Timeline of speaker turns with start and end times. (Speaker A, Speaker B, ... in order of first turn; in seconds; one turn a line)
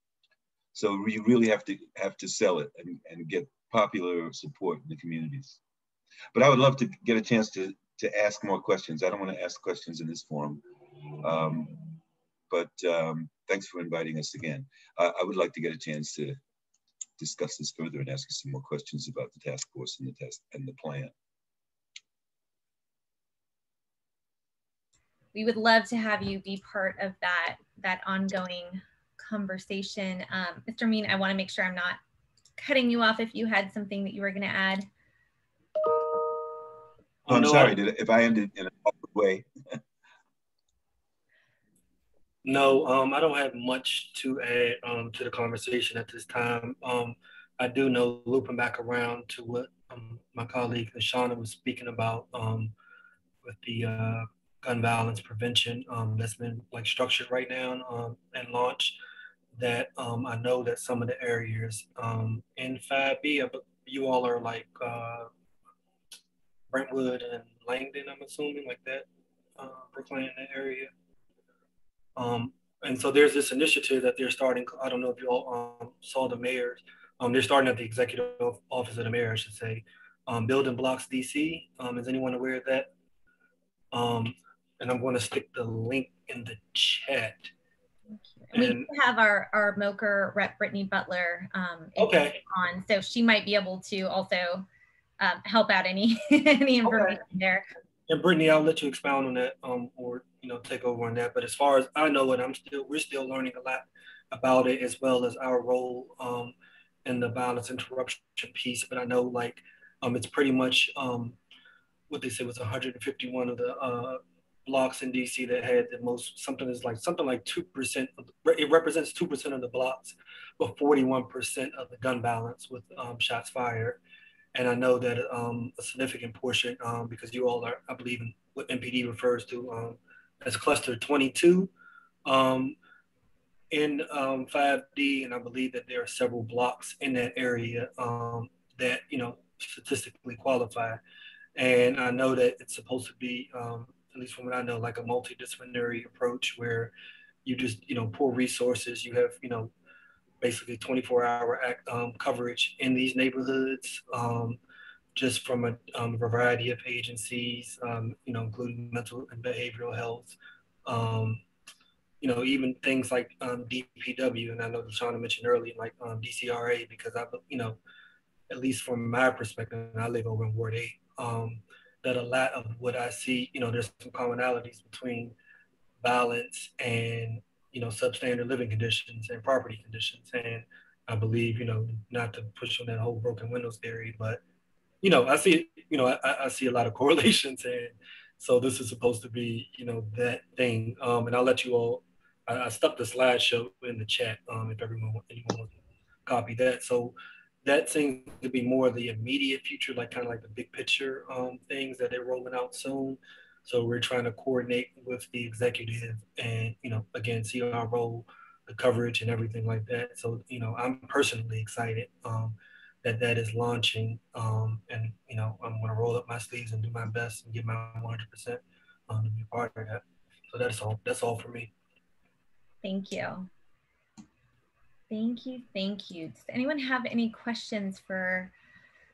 Speaker A: 0.7-5.6
Speaker A: 6.3-10.6
Speaker A: 11.2-12.0
Speaker A: 12.5-16.4
Speaker A: 17.2-21.1
Speaker B: 25.3-32.0
Speaker B: 32.6-34.9
Speaker C: 37.3-37.8
Speaker A: 37.3-39.5
Speaker C: 42.4-52.7
Speaker C: 53.4-59.0
Speaker C: 59.5-65.3
Speaker C: 66.7-69.1
Speaker C: 69.6-70.9
Speaker C: 72.2-82.9
Speaker C: 83.9-87.5
Speaker B: 88.1-94.7
Speaker C: 88.5-88.9
Speaker C: 92.0-92.4
Speaker B: 95.2-97.7
Speaker C: 96.9-97.2
Speaker C: 98.1-106.5
Speaker C: 107.0-111.4
Speaker C: 112.1-124.0
Speaker C: 124.5-131.7
Speaker C: 132.3-132.8
Speaker C: 133.7-141.0
Speaker C: 141.6-146.9
Speaker C: 147.4-149.7
Speaker C: 150.4-154.6
Speaker C: 155.2-160.3
Speaker C: 160.9-161.4
Speaker C: 162.2-167.8
Speaker C: 168.5-175.3
Speaker C: 176.0-184.4
Speaker C: 185.0-195.7
Speaker C: 196.3-221.7
Speaker B: 222.8-223.5
Speaker B: 225.1-228.5